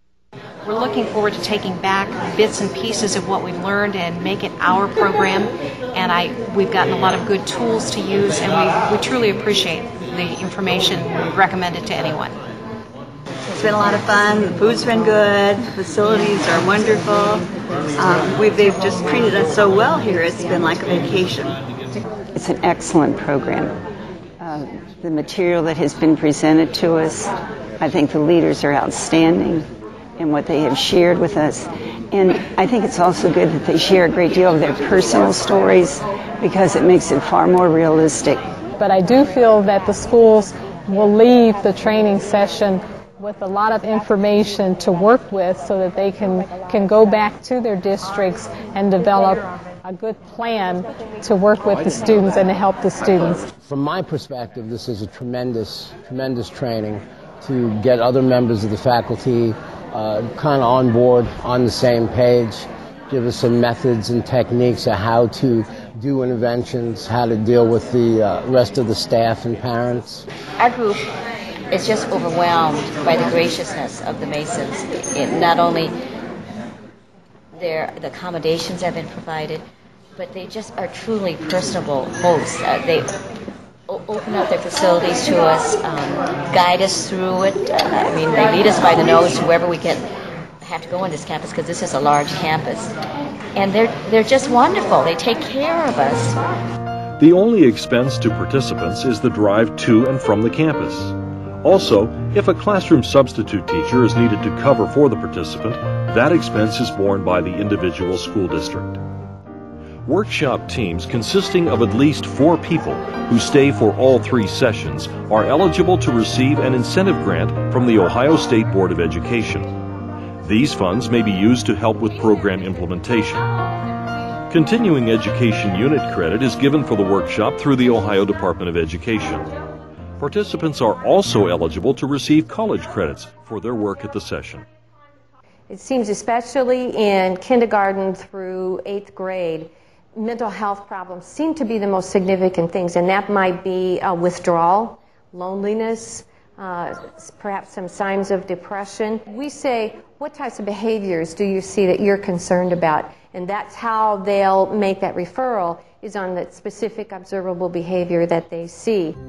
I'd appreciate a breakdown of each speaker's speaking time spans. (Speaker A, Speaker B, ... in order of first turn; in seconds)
Speaker A: 0.7-12.4
Speaker B: 13.5-21.6
Speaker C: 22.3-23.8, 24.4-38.4
Speaker D: 38.8-53.5
Speaker E: 53.6-70.3
Speaker F: 70.6-71.1, 71.7-76.0, 77.5-79.7, 80.2-83.1, 83.9-90.0, 90.6-92.9, 93.5-96.4
Speaker G: 97.2-109.0, 110.1-119.7, 120.4-123.5, 124.5-129.5, 130.2-134.7
Speaker H: 135.7-159.2